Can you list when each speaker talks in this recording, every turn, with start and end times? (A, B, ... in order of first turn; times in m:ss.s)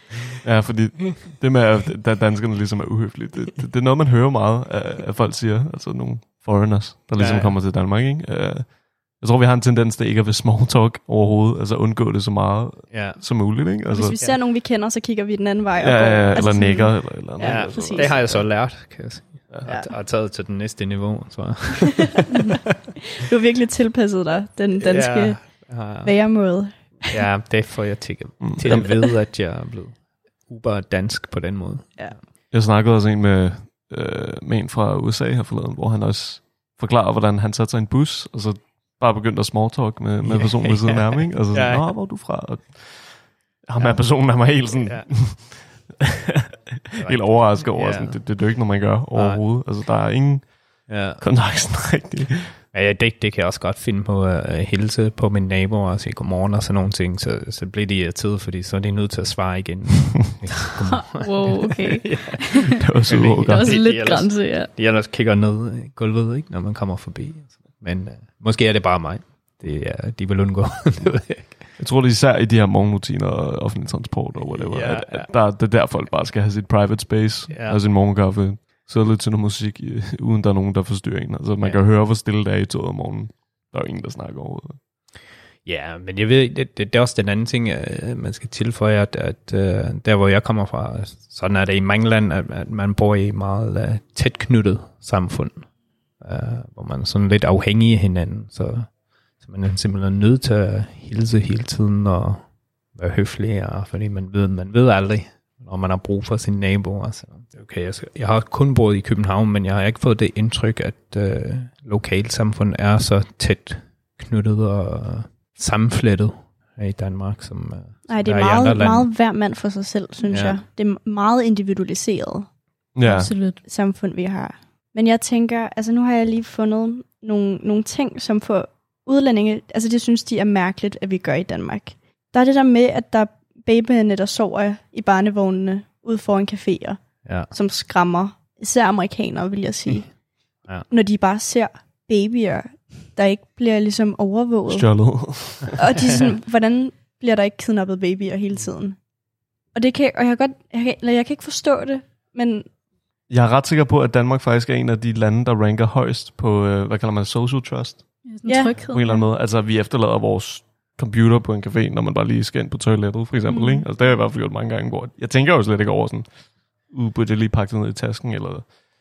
0:00.4-0:14.2 A
0:07.2-0:07.6 B
0:12.9-0:13.2 B
0:13.9-0:18.1 C
0:15.8-0:18.4 A
0:17.4-0:22.5 B
0:23.2-0:25.4 C
0:24.8-0:26.2 B
0:26.0-0:27.2 C
0:27.1-0:30.0 B
0:28.4-0:28.9 A
0:30.5-0:32.2 B
0:32.5-0:52.6 A
0:40.2-0:41.9 B
0:43.8-0:45.1 B
0:47.0-0:48.2 B
0:49.2-0:49.4 B
0:50.9-0:51.2 B
0:52.7-1:11.6 B
1:00.9-1:02.8 D
1:02.8-1:03.8 A
1:03.4-1:04.7 D
1:11.8-1:24.8 A
1:14.4-1:15.3 B
1:17.5-1:17.8 B
1:25.6-1:35.6 B
1:36.2-1:38.9 B
1:39.4-1:59.1 B
1:58.1-2:02.5 C
2:00.2-2:00.6 B
2:03.0-2:03.3 A
2:03.1-2:03.6 D
2:03.6-2:20.1 C
2:17.2-2:17.5 B
2:20.9-2:29.0 C
2:24.7-2:25.8 A
2:29.8-2:32.7 C
2:33.3-2:38.2 A
2:38.3-2:39.2 D
2:38.5-2:38.8 C
2:38.9-2:46.3 A
2:43.5-2:43.8 C
2:46.9-2:48.7 A